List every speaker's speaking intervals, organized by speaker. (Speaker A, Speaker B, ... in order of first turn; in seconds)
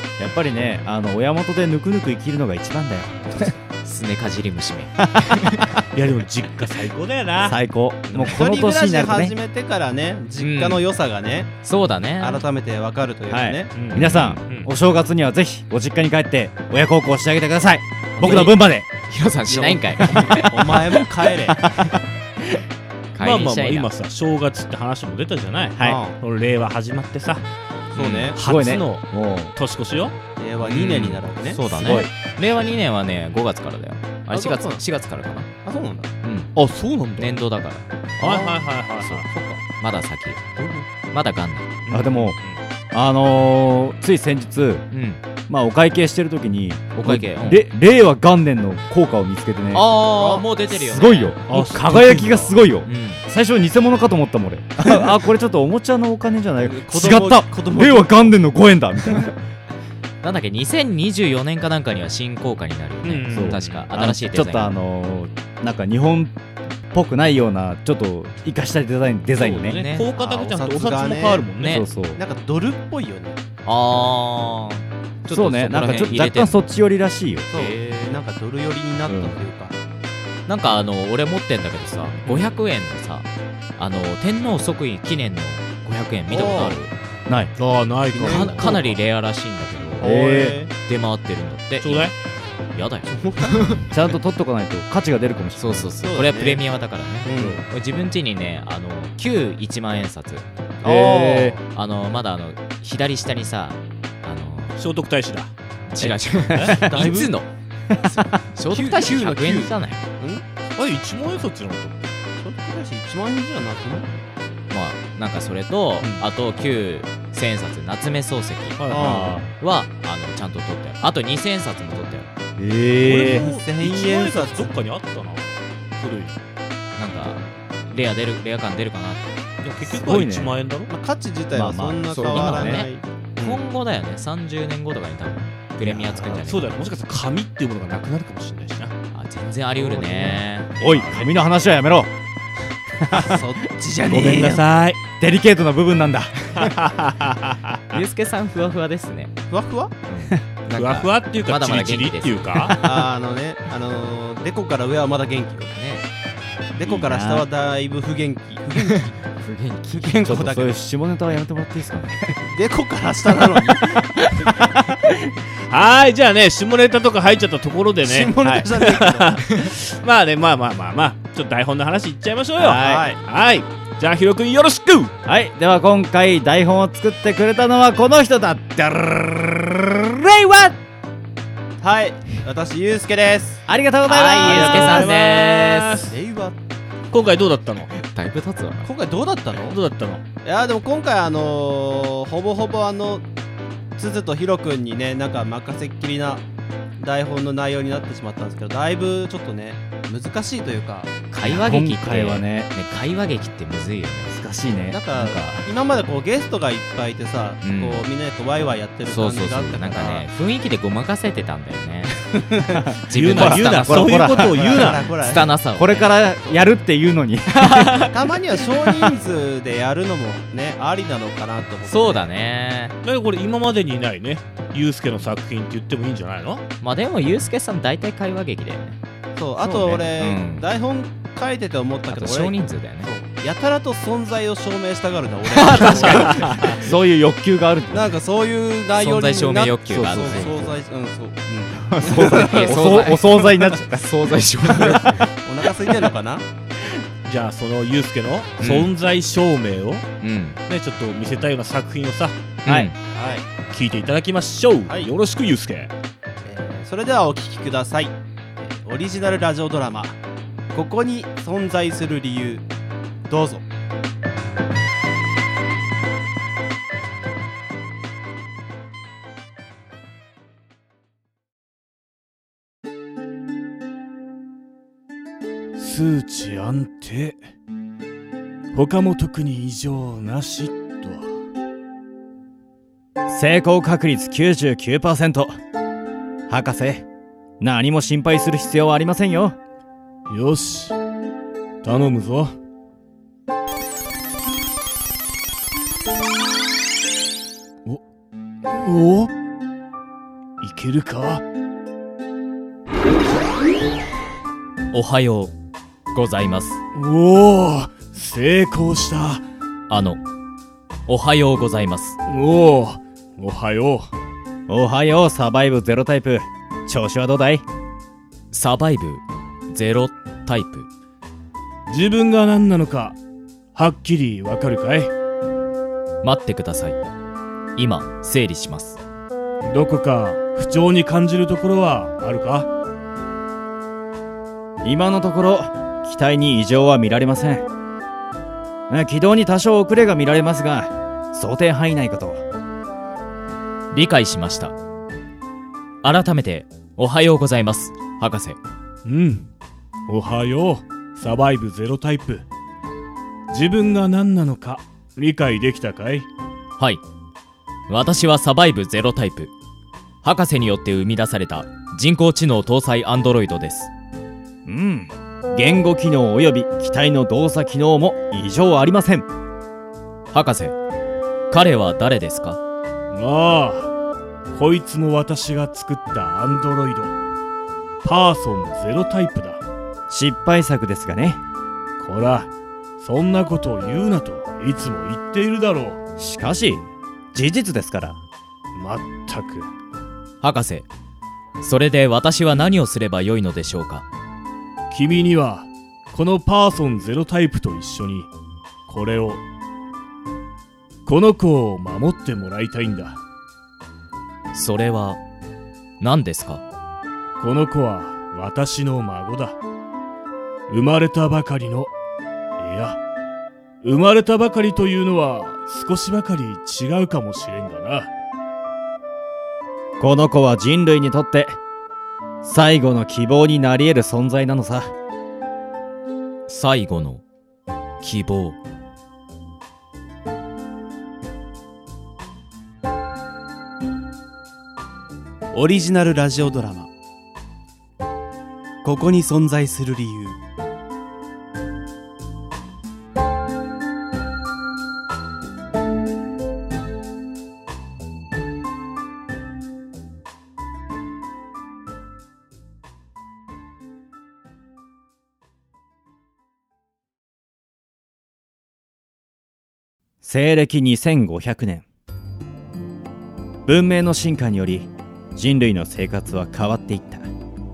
Speaker A: 0.2-3.5, 5.0-5.7, 7.4-9.3, 13.3-18.9, 20.1-20.5, 25.8-26.0, 28.4-29.5, 31.8-32.1, 41.9-42.4, 42.9-44.9, 45.5-49.9, 50.7-59.4, 63.3-69.8, 71.6-72.2, 75.3-77.5, 79.0-79.4, 90.0-90.6, 93.9-95.8, 100.8-101.6, 106.6-107.1, 107.9-108.3, 119.0-119.4, 122.6-123.5, 129.8-130.6, 131.5-132.8, 135.8-136.4, 140.8-142.1, 143.0-143.4, 144.2-144.6, 145.2-146.7, 152.7-152.9, 156.8-157.5, 160.2-162.4, 163.9-165.1, 172.6-173.0, 175.2-180.8, 183.7-185.1, 201.4-202.7, 204.3-205.0, 212.8-214.9, 215.8-218.1, 236.6-238.1, 239.9-240.7, 241.7-245.2, 252.6-252.9, 283.3-285.6, 286.5-287.1, 287.6-289.6, 314.7-317.6, 334.8-337.7, 338.9-342.4, 364.6-369.3, 380.1-381.4, 386.2-388.2, 420.0-421.6, 422.4-424.9, 460.2-461.8, 463.6-467.2
Speaker B: 3.8-4.9, 10.4-10.8, 11.6-12.4, 13.9-14.4, 18.2-20.8, 23.1-23.9, 27.9-28.3, 30.6-35.5, 36.2-36.5, 37.2-37.8, 39.0-40.4, 41.1-41.7, 44.9-45.2, 46.9-47.7, 49.7-51.6, 52.8-53.2, 60.2-64.8, 69.7-70.0, 71.6-71.8, 73.6-76.6, 77.5-78.2, 80.5-86.9, 88.2-90.0, 90.8-92.1, 92.7-93.8, 95.5-104.8, 105.9-107.5, 108.0-110.0, 114.7-122.3, 127.0-129.3, 132.1-136.7, 139.1-140.7, 147.9-149.3, 150.1-152.7, 155.7-156.0, 159.1-160.1, 184.1-185.9, 187.9-188.9, 201.3-204.4, 205.1-205.6, 207.6-208.0, 209.1-212.2, 213.1-214.4, 215.1-216.1, 217.6-218.1, 221.8-222.9, 226.8-229.0, 229.6-230.7, 232.1-233.1, 235.5-236.7, 238.9-240.5, 242.1-245.2, 248.6-248.9, 250.2-250.6, 252.6-252.9, 304.9-305.5, 306.1-306.8, 309.9-310.2, 311.1-312.2, 318.5-320.9, 326.2-327.0, 327.8-329.0, 343.9-344.7, 346.0-348.6, 357.9-359.5, 360.2-363.9, 370.3-370.8, 371.5-372.6, 390.4-390.9, 391.6-394.0, 404.5-405.2, 406.0-406.6, 426.5-427.2, 428.0-428.6
Speaker C: 5.9-7.6, 13.7-14.7, 23.2-27.4, 28.3-30.1, 36.5-37.3, 38.2-39.2, 41.9-42.6, 51.5-52.5, 63.0-63.8, 69.4-71.8, 87.6-89.0, 91.8-92.1, 104.8-105.5, 106.5-106.8, 110.8-112.1, 118.8-119.5, 123.0-126.4, 129.6-130.9, 136.3-138.9, 140.8-141.3, 144.1-145.0, 146.6-148.0, 150.7-152.7, 165.7-175.1, 184.4-186.1, 187.1-187.9, 189.5-190.2, 213.1-215.1, 223.0-226.6, 236.0-236.6, 247.2-250.1, 250.7-252.4, 253.7-255.9, 275.8-277.4, 278.7-281.3, 290.3-290.9, 291.8-292.5, 298.6-299.3, 300.6-301.4, 306.9-309.4, 312.3-314.1, 321.9-323.2, 323.7-325.1, 329.6-332.7, 349.0-349.5, 350.1-352.4, 353.5-356.3, 373.1-373.9, 374.5-377.1, 378.0-379.6, 382.0-386.0, 388.7-389.7, 394.9-398.3, 398.9-399.4, 401.1-403.2, 407.4-409.6, 410.7-411.9, 412.6-413.0, 413.8-418.1
Speaker D: 8.1-11.6, 12.2-13.7, 19.5-21.6, 25.8-26.2, 27.9-28.4, 30.4-32.0, 34.3-34.8, 35.6-36.1, 38.2-38.7, 39.2-39.6, 50.0-50.5, 56.6-58.4, 70.1-71.5, 72.2-73.4, 77.5-79.8, 86.3-86.8, 88.2-88.7, 90.0-90.7, 93.1-93.8, 96.0-96.6, 97.2-97.6, 100.8-101.6, 106.7-107.3, 108.7-110.4, 112.4-114.1, 118.9-119.5, 123.0-124.7, 130.9-133.6, 139.8-140.3, 143.1-144.6, 149.5-149.9, 152.8-155.7, 156.8-159.1, 159.9-160.8, 162.4-164.1, 168.0-169.4, 172.6-173.2, 181.8-183.6, 186.1-186.6, 188.8-189.8, 190.4-193.2, 193.9-196.4, 197.0-201.1, 204.9-210.3, 212.4-212.9, 214.3-215.5, 218.1-222.2, 229.3-236.8, 237.9-243.6, 245.4-246.4, 253.1-253.5, 256.4-260.2, 260.7-262.6, 263.3-263.6
Speaker E: 435.5-436.9, 438.8-440.3